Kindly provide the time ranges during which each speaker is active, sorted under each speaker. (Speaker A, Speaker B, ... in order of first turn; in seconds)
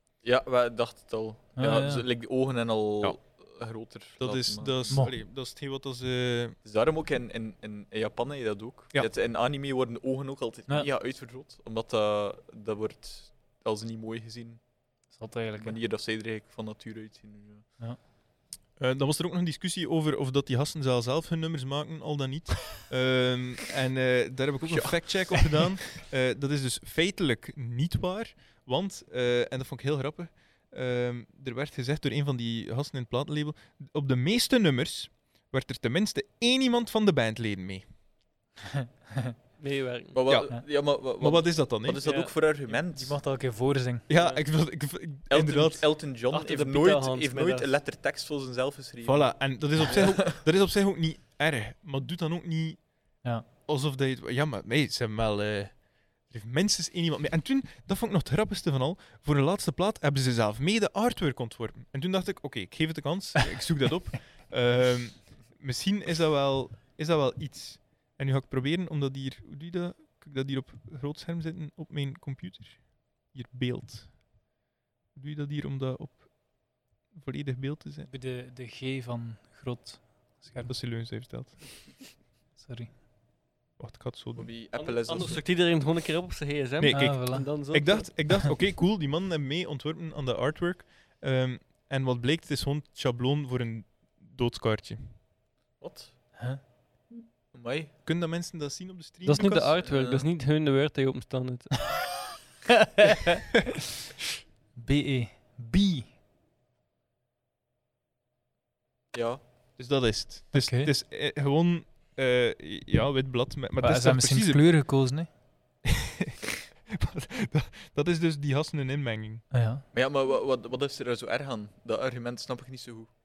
Speaker A: 0.2-5.0, 6.6-14.6, 15.6-17.7, 24.6-25.7, 40.1-43.2, 45.3-50.3, 84.4-85.5, 95.8-96.4, 97.5-97.9, 99.8-100.3, 109.1-109.4, 119.9-123.1
Speaker B: 1.6-2.0, 4.9-5.1, 15.1-15.8, 38.7-39.3, 42.7-44.1, 78.1-80.8, 82.5-82.9, 86.9-87.5, 96.4-96.6, 102.8-103.4, 104.8-106.1, 110.5-110.9, 113.8-115.3, 119.5-119.8
Speaker C: 4.2-6.6, 18.8-37.9, 40.3-42.0, 44.1-45.9, 49.0-53.0, 53.6-74.2, 75.1-78.1, 80.6-81.9, 83.8-84.5, 86.8-95.2, 98.0-99.7, 109.8-114.7, 115.9-119.5
Speaker D: 39.6-40.4, 42.0-42.3, 44.1-44.4, 46.3-47.7, 84.7-88.1, 99.2-102.0